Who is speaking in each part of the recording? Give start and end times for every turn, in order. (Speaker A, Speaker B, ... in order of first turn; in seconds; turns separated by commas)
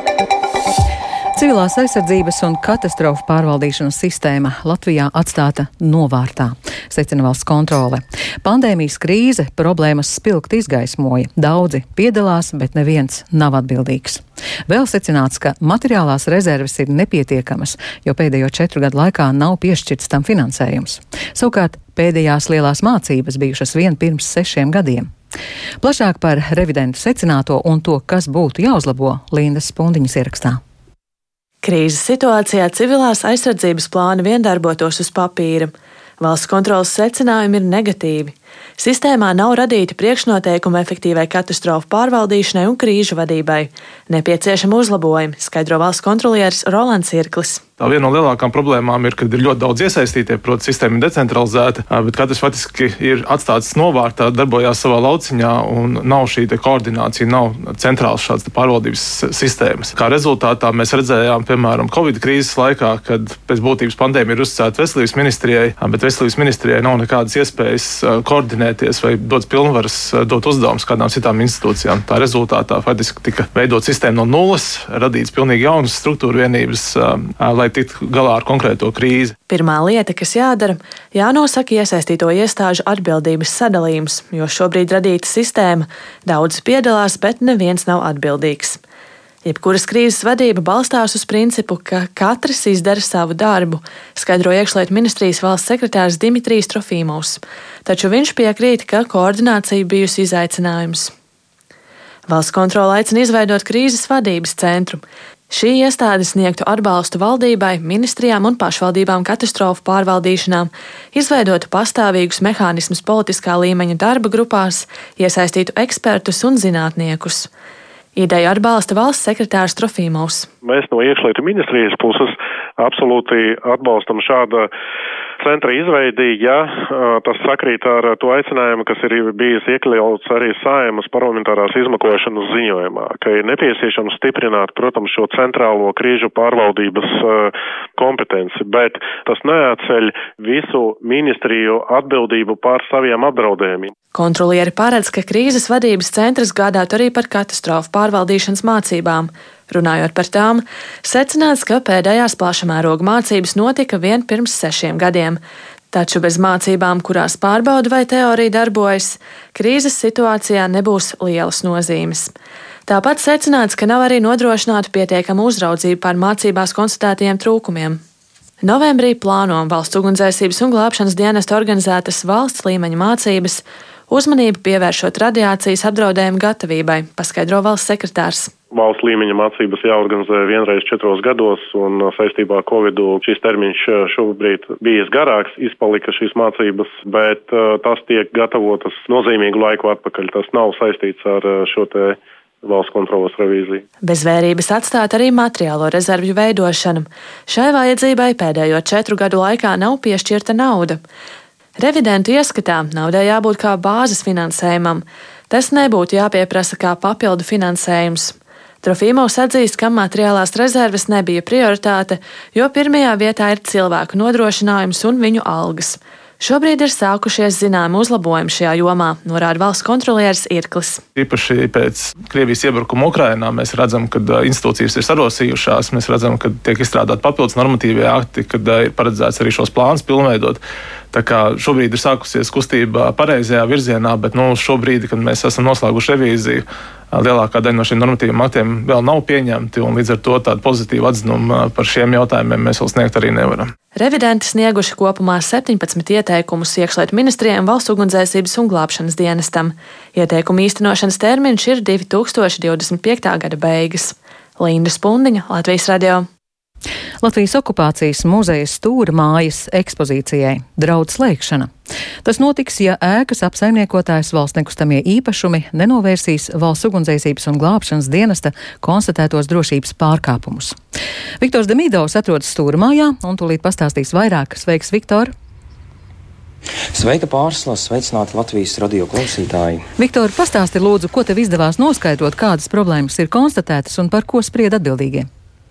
Speaker A: 1.4-25.1, Speaker A: 25.8-30.6, Speaker B: 31.6-47.6, Speaker C: 47.8-79.3, Speaker B: 79.5-88.8, Speaker B: 89.4-101.1, Speaker B: 102.3-117.5, Speaker B: 118.2-120.5, Speaker D: 120.6-124.7, Speaker D: 125.4-143.9, Speaker B: 144.1-155.4, Speaker B: 155.9-162.3, Speaker B: 162.9-168.0, Speaker B: 168.6-178.5, Speaker D: 178.7-193.8, Speaker B: 194.0-201.0, Speaker B: 201.8-221.0, Speaker C: 221.2-230.6, Speaker C: 231.1-243.7, Speaker B: 243.9-256.3, Speaker A: 257.2-261.7, Speaker A: 262.2-270.8, Speaker A: 271.4-275.3, Speaker E: 276.9-279.9, Speaker A: 280.0-285.3